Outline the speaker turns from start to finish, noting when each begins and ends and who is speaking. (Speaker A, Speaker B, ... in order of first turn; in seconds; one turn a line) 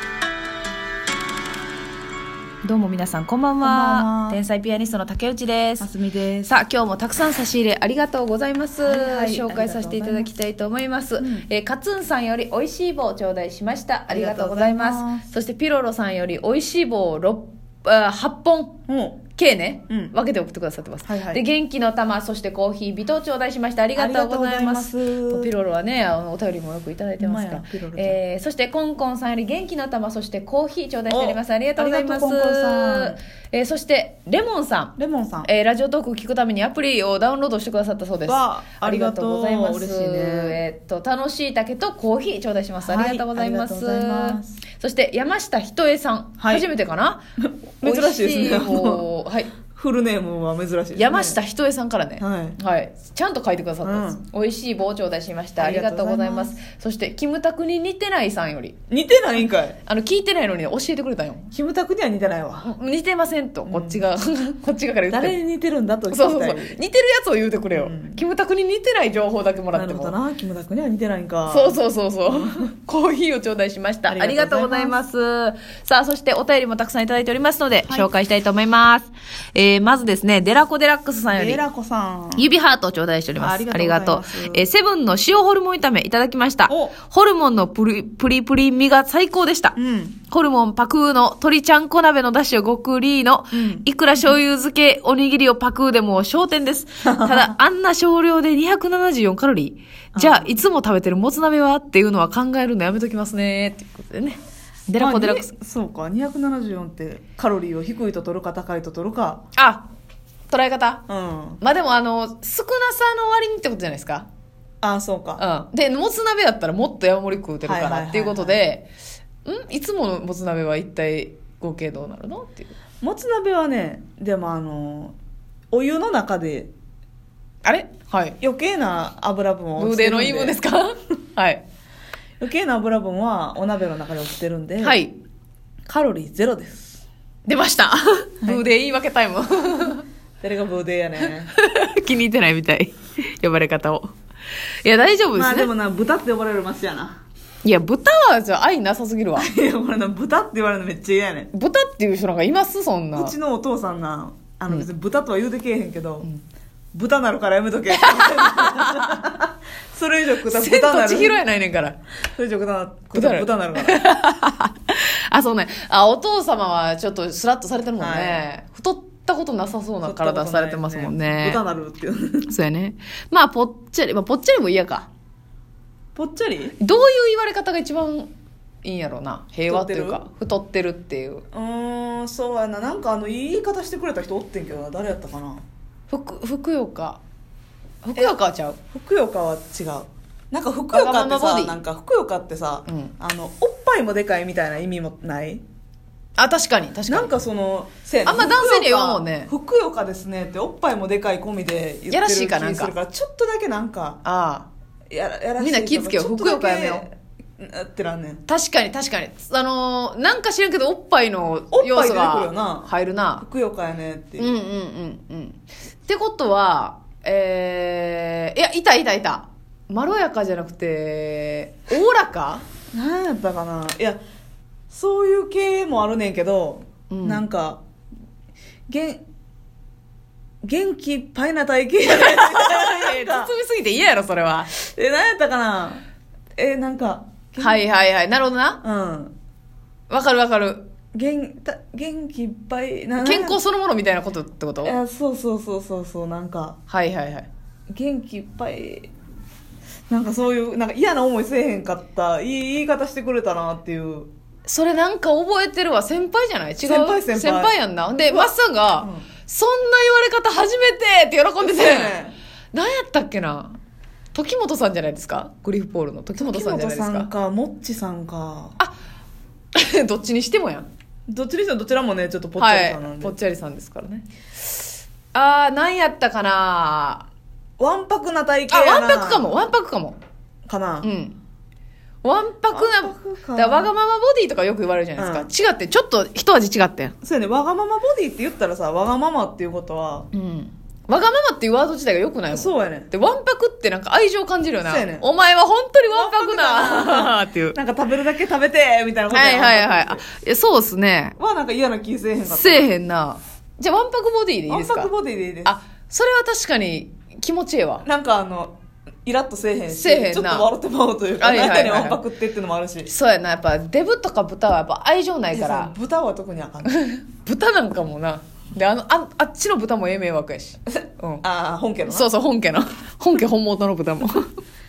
Speaker A: 2.6-5.9
Speaker B: 3.6-4.4
Speaker B: 5.8-6.5
Speaker A: 6.5-18.8
Speaker B: 8.8-10.3
Speaker B: 11.2-11.4
Speaker B: 14.1-15.2
Speaker B: 18.9-19.2
Speaker A: 19.3-47.2
Speaker B: 21.0-21.4
Speaker B: 23.9-25.5
Speaker B: 27.2-28.2
Speaker B: 31.1-33.2
Speaker B: 35.0-35.5
Speaker B: 38.2-40.6
Speaker B: 42.8-44.6
Speaker B: 46.4-46.7
Speaker B: 47.4-49.0
Speaker A: 47.8-49.5
Speaker B: 49.7-51.4
Speaker A: 50.9-58.8
Speaker B: 52.2-52.6
Speaker B: 53.8-54.2
Speaker B: 55.6-56.5
Speaker B: 58.9-59.8
Speaker A: 59.8-61.5
Speaker B: 61.5-62.7
Speaker A: 62.6-65.3
Speaker B: 63.6-64.0
Speaker B: 65.1-66.8
Speaker A: 66.1-70.2
Speaker B: 67.7-68.2
Speaker B: 69.7-72.6
Speaker A: 71.5-81.6
Speaker B: 74.1-75.0
Speaker B: 81.3-82.5
Speaker A: 82.3-89.7
Speaker B: 83.4-84.6
Speaker B: 86.7-86.9
Speaker B: 89.7-90.1
Speaker A: 90.2-105.5
Speaker B: 93.5-93.8
Speaker B: 97.0-97.5
Speaker B: 100.1-100.6
Speaker B: 105.0-109.4
Speaker A: 109.5-109.9
Speaker A: 110.5-111.0
Speaker B: 111.1-111.6
Speaker A: 111.6-114.3
Speaker B: 114.8-115.4
Speaker A: 115.4-118.9
Speaker B: 117.6-118.6
Speaker A: 119.4-122.7
Speaker B: 123.0-125.1
Speaker B: 125.7-126.7
Speaker A: 127.6-128.3
Speaker B: 128.4-130.6
Speaker A: 129.8-131.6
Speaker B: 132.4-135.0
Speaker A: 134.8-135.2
Speaker B: 135.9-137.0
Speaker A: 137.4-140.0
Speaker B: 140.4-141.5
Speaker A: 141.5-144.1
Speaker A: 144.8-145.7
Speaker B: 145.3-147.2
Speaker A: 147.6-149.5
Speaker B: 149.3-151.5
Speaker A: 151.5-153.3
Speaker B: 153.1-156.3
Speaker B: 156.9-161.4
Speaker A: 158.0-159.2
Speaker A: 160.5-162.0
Speaker B: 162.3-164.0
Speaker A: 163.1-171.6
Speaker B: 168.0-168.4
Speaker B: 170.0-172.5
Speaker A: 172.4-175.1
Speaker B: 176.1-176.8
Speaker A: 176.8-178.3
Speaker A: 178.8-181.4
Speaker B: 179.7-180.2
Speaker B: 181.5-185.6
Speaker A: 186.1-187.2
Speaker A: 188.0-188.8
Speaker B: 188.9-195.6
Speaker A: 190.9-191.8
Speaker A: 192.9-193.1
Speaker A: 196.4-197.3
Speaker B: 197.1-204.2
Speaker A: 198.2-199.5
Speaker A: 202.1-202.9
Speaker A: 204.2-204.7
Speaker B: 205.1-208.4
Speaker A: 205.6-207.0
Speaker A: 208.5-213.4
Speaker B: 211.7-214.5
Speaker A: 214.4-222.6
Speaker B: 222.9-224.2
Speaker B: 224.9-227.8
Speaker A: 227.1-227.4
Speaker B: 228.9-229.2
Speaker B: 230.6-233.5
Speaker A: 232.1-234.7
Speaker B: 234.8-236.0
Speaker B: 236.6-237.8
Speaker A: 237.6-238.8
Speaker B: 238.8-239.3
Speaker A: 240.1-240.8
Speaker B: 241.1-243.6
Speaker A: 243.2-245.0
Speaker B: 244.8-246.8
Speaker A: 246.9-247.5
Speaker B: 247.9-249.1
Speaker B: 250.1-254.3
Speaker A: 254.7-262.1
Speaker B: 256.8-259.2
Speaker B: 261.6-262.4
Speaker A: 262.7-263.8
Speaker A: 264.3-267.3
Speaker B: 266.4-268.8
Speaker A: 269.7-270.9
Speaker B: 271.3-273.3
Speaker A: 272.6-274.2
Speaker A: 275.3-277.3
Speaker B: 277.8-279.6
Speaker A: 278.7-280.2
Speaker B: 280.6-281.1
Speaker A: 281.0-281.4
Speaker A: 282.2-287.1
Speaker B: 282.7-283.9
Speaker B: 285.1-285.5
Speaker B: 287.2-290.3
Speaker A: 290.3-297.8
Speaker B: 292.5-293.1
Speaker B: 294.8-295.3
Speaker B: 296.1-300.2
Speaker A: 299.3-301.3
Speaker B: 301.4-302.9
Speaker A: 302.5-305.1
Speaker B: 304.7-305.7
Speaker A: 305.6-308.0
Speaker B: 308.0-313.1
Speaker A: 309.9-310.7
Speaker A: 311.4-312.2
Speaker A: 313.1-315.9
Speaker B: 315.5-316.9
Speaker A: 316.9-321.4
Speaker B: 321.4-322.3
Speaker A: 322.1-324.5